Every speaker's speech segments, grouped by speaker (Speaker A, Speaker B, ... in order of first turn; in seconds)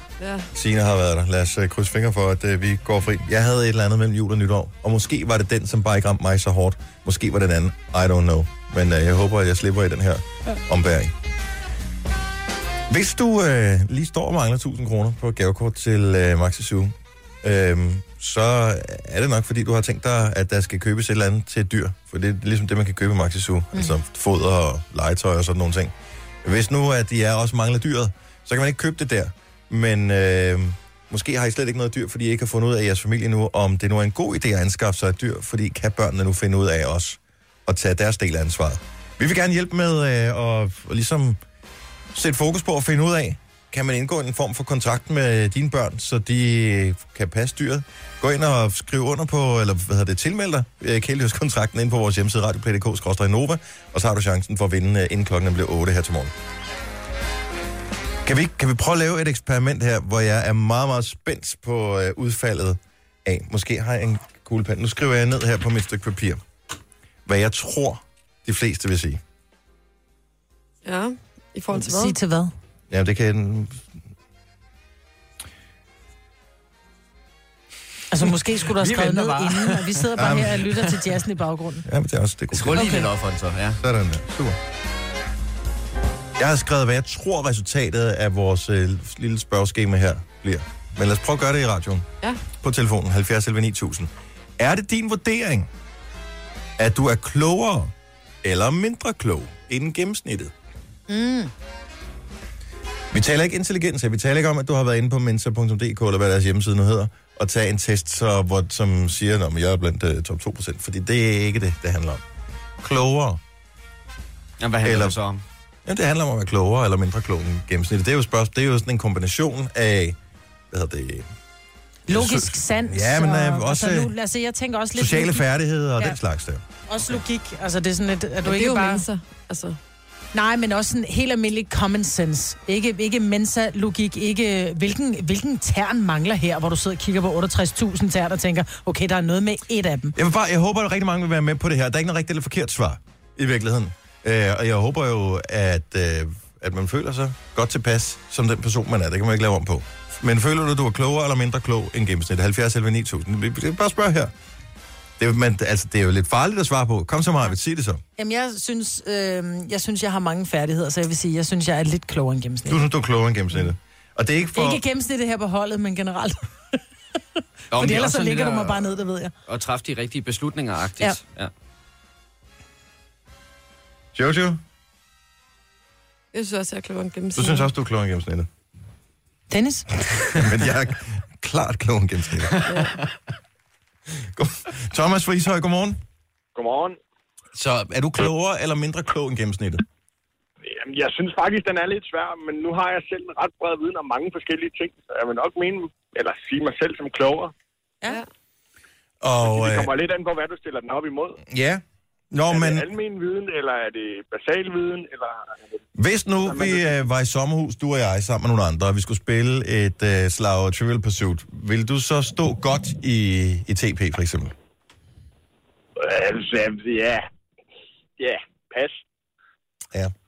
Speaker A: 0.2-0.5, 70.8-72.2, 128.4-129.8, 176.3-177.7, 182.7-183.0
Speaker B: 0.5-11.1, 12.9-25.9, 26.4-41.4, 42.1-56.3, 58.2-66.4, 67.3-69.2, 72.9-73.9, 80.2-80.7, 81.9-83.0, 83.8-84.6, 86.4-95.7, 96.8-100.5, 103.1-112.2, 112.8-113.4, 114.8-115.2, 115.9-120.2, 120.7-121.3, 122.1-124.1, 124.9-126.6, 140.2-154.3, 155.2-158.0, 162.7-164.8, 174.2-174.6, 177.3-178.5, 180.4-182.9, 184.2-186.0, 187.5-189.8, 199.2-199.9, 201.4-202.9, 206.0-214.5
Speaker C: 71.7-72.5, 78.1-81.9, 82.7-83.1, 101.1-101.5, 122.1-125.5, 126.9-129.1, 130.3-140.2, 158.2-162.8, 164.6-166.8, 167.7-169.3, 179.5-179.9
Speaker D: 78.7-80.1, 82.5-83.8, 114.6-115.4, 167.7-168.8, 169.5-171.5
Speaker E: 186.6-187.0, 190.6-197.5, 199.4-201.4, 202.5-205.5, 206.4-207.0, 216.0-217.3, 218.2-219.0